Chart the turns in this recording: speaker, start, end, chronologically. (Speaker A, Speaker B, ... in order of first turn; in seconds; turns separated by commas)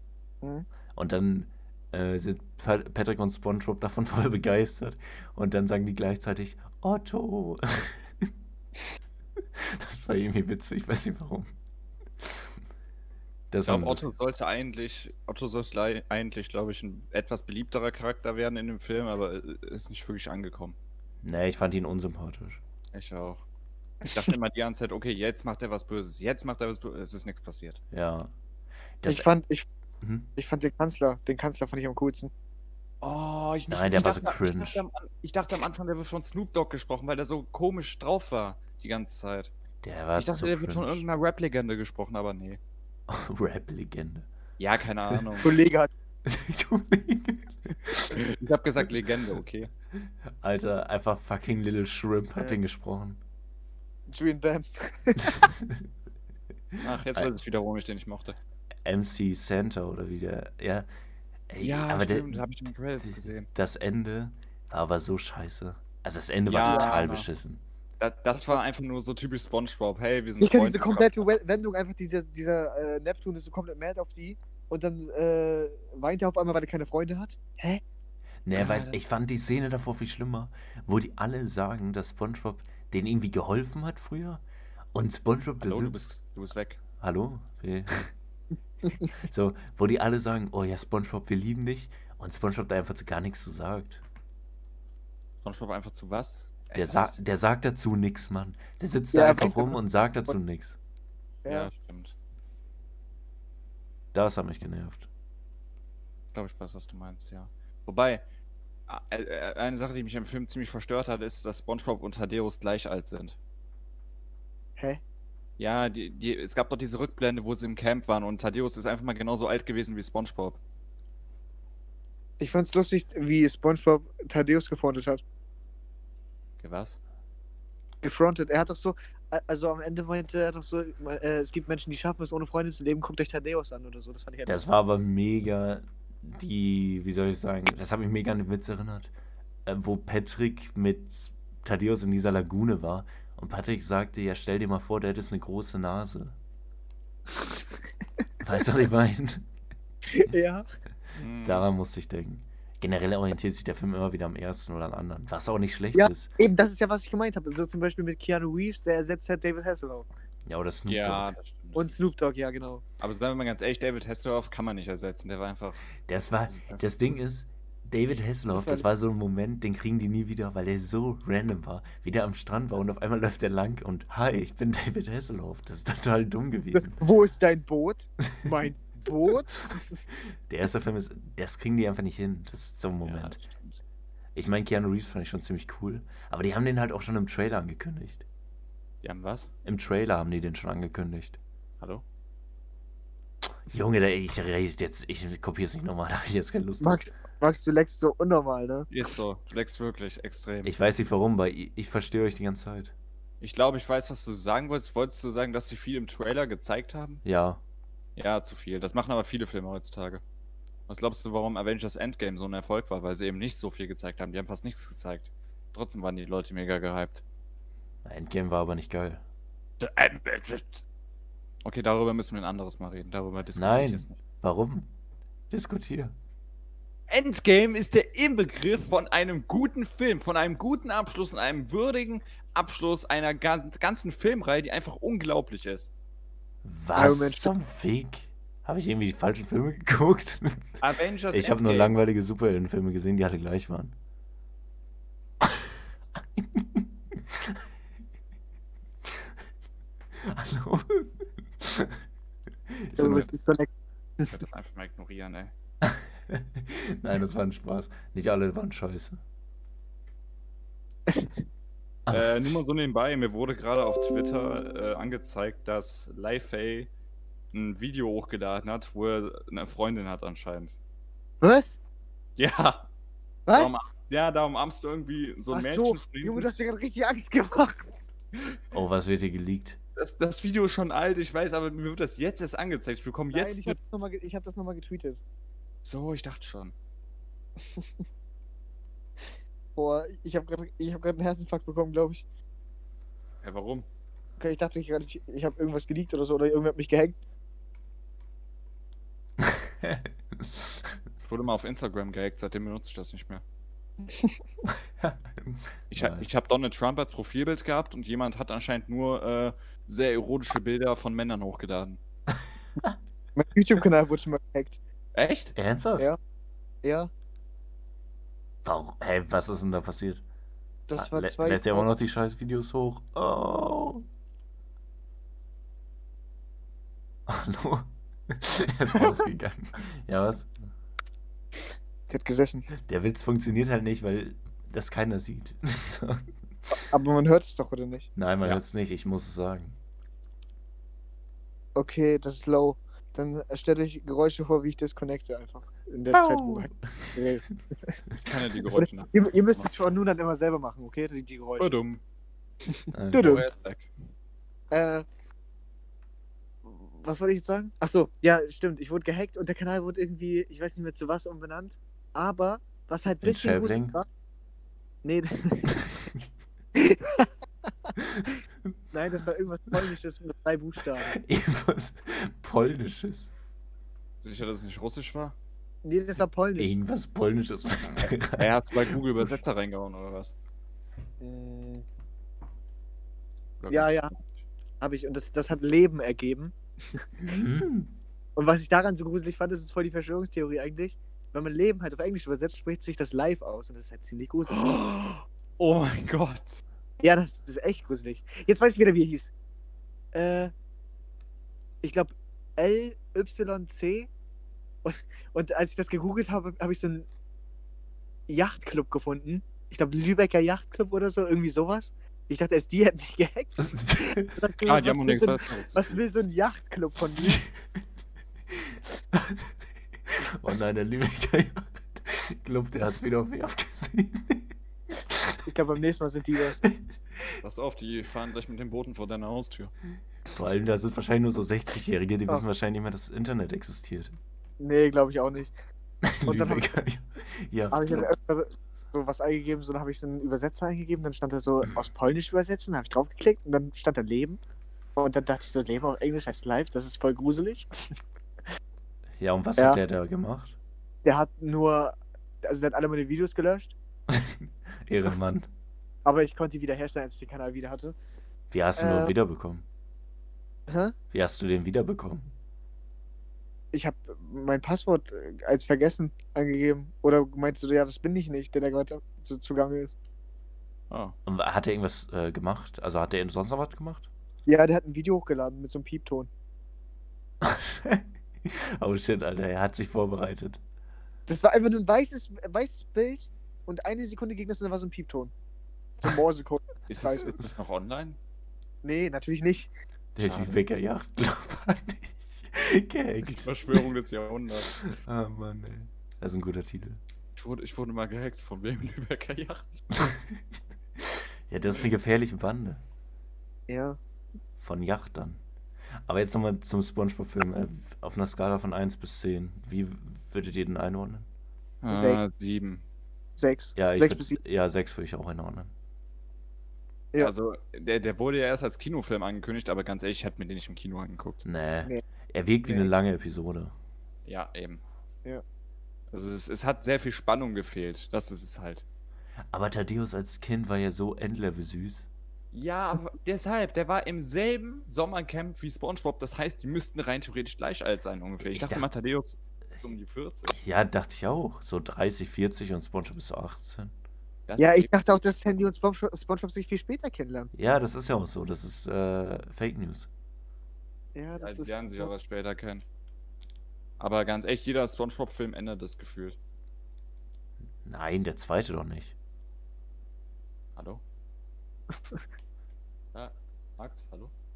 Speaker A: 0.9-8.3, Speaker A: 9.5-11.5, Speaker A: 12.2-12.5, Speaker A: 13.5-14.0, Speaker B: 13.6-20.8, Speaker A: 21.2-22.6, Speaker B: 22.9-23.4, Speaker B: 24.1-27.8, Speaker A: 27.9-28.3, Speaker A: 29.0-29.3, Speaker C: 29.0-29.7, Speaker A: 30.0-30.3, Speaker C: 30.4-32.3, Speaker B: 33.0-39.5, Speaker A: 33.7-34.8, Speaker A: 39.8-41.0, Speaker B: 40.1-42.6, Speaker A: 43.1-44.3, Speaker B: 44.6-45.5, Speaker C: 45.4-45.9, Speaker A: 46.2-48.2, Speaker B: 48.1-49.7, Speaker A: 50.4-53.2, Speaker C: 54.1-55.5, Speaker A: 55.2-55.9, Speaker A: 56.7-57.3, Speaker B: 56.8-58.4, Speaker A: 58.8-60.9, Speaker A: 61.5-62.4, Speaker B: 61.6-63.5, Speaker A: 63.5-67.6, Speaker B: 66.5-67.3, Speaker C: 66.6-67.0, Speaker B: 68.0-71.2, Speaker C: 70.4-77.8, Speaker A: 78.4-84.4, Speaker B: 78.5-79.0, Speaker A: 84.9-86.1, Speaker B: 85.6-86.8, Speaker A: 87.0-88.1, Speaker A: 89.2-94.0, Speaker B: 95.4-97.2, Speaker A: 96.7-100.8, Speaker C: 99.1-100.3, Speaker C: 101.4-101.7, Speaker B: 101.5-102.1, Speaker A: 104.1-105.1, Speaker B: 106.3-108.2, Speaker B: 108.9-113.4, Speaker B: 115.6-120.6, Speaker C: 122.4-125.2, Speaker B: 126.6-127.0, Speaker C: 128.0-134.6, Speaker A: 134.4-139.1, Speaker A: 139.7-146.3, Speaker A: 148.4-149.4, Speaker C: 150.1-150.7, Speaker B: 151.2-151.7, Speaker A: 151.4-156.3, Speaker C: 155.9-160.1, Speaker A: 160.5-161.3, Speaker B: 160.9-162.0, Speaker C: 161.7-162.8, Speaker B: 163.0-165.8, Speaker A: 166.1-177.0, Speaker B: 166.5-166.8, Speaker C: 168.5-168.8, Speaker C: 176.7-180.0, Speaker A: 180.5-183.4, Speaker B: 183.0-183.8, Speaker A: 184.3-188.2, Speaker B: 189.0-189.5, Speaker A: 189.6-191.4, Speaker A: 193.7-197.0, Speaker C: 196.8-198.9, Speaker B: 198.9-200.8, Speaker A: 200.6-202.9, Speaker B: 203.4-207.2, Speaker A: 207.2-207.6, Speaker B: 208.2-210.2, Speaker B: 210.9-217.2, Speaker A: 218.0-219.2, Speaker B: 219.8-220.8, Speaker B: 221.6-224.2, Speaker A: 223.6-224.9, Speaker A: 225.5-226.1, Speaker B: 227.1-235.9, Speaker A: 236.6-243.9, Speaker C: 236.9-237.5, Speaker B: 240.8-241.9, Speaker A: 245.4-247.6, Speaker A: 250.2-252.0, Speaker A: 252.7-253.3, Speaker C: 253.0-253.7, Speaker B: 254.3-255.5, Speaker A: 255.8-259.2, Speaker A: 262.1-262.6, Speaker B: 262.1-266.9, Speaker B: 267.5-270.7, Speaker C: 271.4-271.8, Speaker B: 272.4-272.9, Speaker C: 273.5-273.8, Speaker B: 273.5-276.5, Speaker C: 275.5-278.1, Speaker A: 278.7-279.8, Speaker B: 279.9-283.8, Speaker C: 283.3-285.2, Speaker B: 285.8-286.7, Speaker C: 289.8-292.2, Speaker B: 293.4-293.9, Speaker C: 294.4-297.1, Speaker A: 299.4-300.9, Speaker B: 301.2-303.4, Speaker C: 304.1-304.4, Speaker A: 304.7-306.3, Speaker B: 305.9-312.0, Speaker C: 313.4-314.8, Speaker B: 315.1-315.5, Speaker A: 315.5-316.1, Speaker C: 316.8-317.1, Speaker A: 318.6-320.2, Speaker C: 320.9-321.9, Speaker A: 321.0-324.0, Speaker A: 327.3-330.5, Speaker C: 332.1-332.7, Speaker A: 332.8-336.3, Speaker C: 336.7-338.1, Speaker A: 338.1-339.7, Speaker C: 341.7-348.0, Speaker A: 346.1-347.2, Speaker B: 348.2-349.7, Speaker C: 348.8-351.7, Speaker B: 351.6-352.0, Speaker C: 352.7-353.5, Speaker A: 352.9-353.4, Speaker B: 353.1-353.9, Speaker C: 354.7-355.0, Speaker C: 356.6-364.1, Speaker A: 363.2-363.9, Speaker C: 365.0-365.8, Speaker C: 366.7-367.3, Speaker A: 368.0-368.7, Speaker C: 368.9-371.1, Speaker A: 370.9-373.3, Speaker B: 374.2-375.4, Speaker C: 375.8-376.7, Speaker A: 376.6-378.9, Speaker B: 378.4-380.3, Speaker C: 381.2-381.8, Speaker B: 383.6-384.4, Speaker C: 383.7-384.1, Speaker C: 384.8-387.1, Speaker A: 387.2-387.9, Speaker C: 388.4-394.6, Speaker B: 394.5-396.6, Speaker C: 397.0-399.3, Speaker C: 400.1-400.5, Speaker C: 401.8-404.1, Speaker C: 404.8-407.1, Speaker C: 408.3-417.4, Speaker A: 413.6-414.4, Speaker B: 414.6-416.0, Speaker A: 417.2-417.4, Speaker A: 419.1-419.5, Speaker A: 420.1-424.5, Speaker A: 425.1-425.4, Speaker C: 425.4-426.6, Speaker B: 427.4-429.7, Speaker A: 430.3-434.1, Speaker C: 434.6-435.5, Speaker A: 436.0-438.1, Speaker C: 436.2-436.8, Speaker C: 437.7-444.4, Speaker C: 444.9-447.7, Speaker A: 449.2-450.6, Speaker C: 451.0-453.7, Speaker A: 454.1-455.5, Speaker C: 456.0-457.9, Speaker A: 458.5-459.6, Speaker C: 458.8-459.1, Speaker C: 460.7-460.9, Speaker A: 461.1-462.3, Speaker C: 463.7-469.9, Speaker B: 470.9-471.1, Speaker A: 471.2-474.1, Speaker C: 474.4-476.3, Speaker A: 477.4-480.6, Speaker C: 481.3-485.3, Speaker C: 486.0-487.3, Speaker B: 486.9-488.2, Speaker C: 488.8-489.7, Speaker A: 490.1-493.8, Speaker B: 490.2-490.6, Speaker B: 493.2-494.9, Speaker A: 494.8-497.0, Speaker B: 497.4-499.8, Speaker A: 500.0-500.4, Speaker A: 501.0-502.8, Speaker C: 503.7-504.0, Speaker A: 504.6-505.4, Speaker A: 506.1-511.3, Speaker B: 511.8-512.8, Speaker C: 511.9-512.2, Speaker C: 513.4-514.4, Speaker A: 513.8-515.7, Speaker B: 517.2-521.4, Speaker A: 521.4-523.7, Speaker B: 524.2-524.8, Speaker B: 526.1-528.8, Speaker A: 529.5-532.1, Speaker B: 532.5-540.6, Speaker A: 538.5-538.9, Speaker A: 540.6-543.9, Speaker B: 544.5-544.9, Speaker C: 544.6-547.5, Speaker A: 547.5-550.1, Speaker C: 551.1-552.1, Speaker B: 551.4-552.8, Speaker B: 554.0-556.4, Speaker A: 557.8-559.1, Speaker B: 560.8-561.0, Speaker B: 563.1-564.3